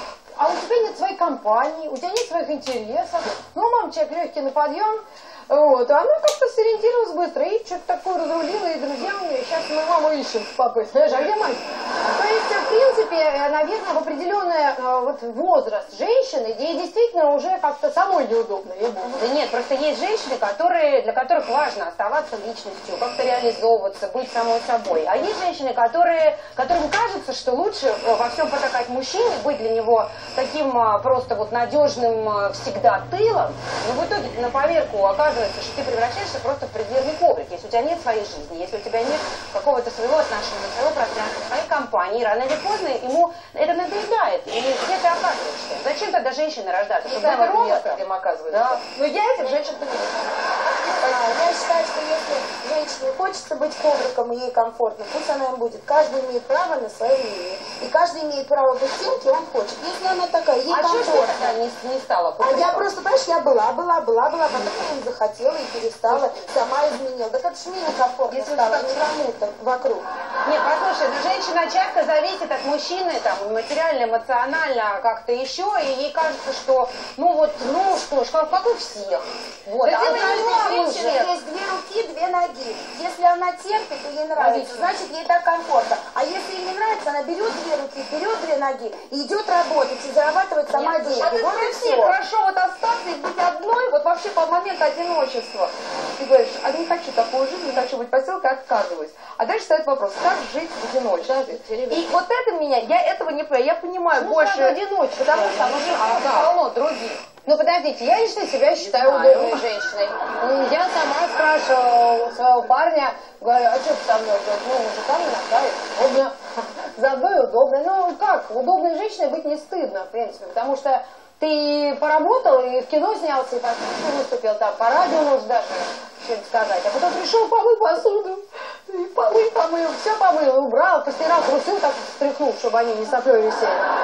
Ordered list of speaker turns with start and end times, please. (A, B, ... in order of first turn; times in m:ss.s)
0:00.4-0:19.2 A
0:19.1-0:48.8 B
0:47.0-0:51.5 C
0:47.2-0:48.0 A
0:50.9-1:01.6 D
1:00.7-1:02.9 B
1:02.4-1:10.1 D
1:08.3-1:09.0 B
1:10.4-1:21.3 B
1:19.8-1:21.0 A
1:20.0-1:32.2 D
1:24.4-1:24.9 B
1:30.7-1:31.3 B
1:31.1-1:44.8 C
1:41.2-1:42.1 A
1:44.1-1:46.6 A
1:45.3-1:46.5 C
1:46.0-1:47.2 B
1:47.3-1:56.3 A
1:48.8-1:49.9 B
1:56.9-2:13.8 A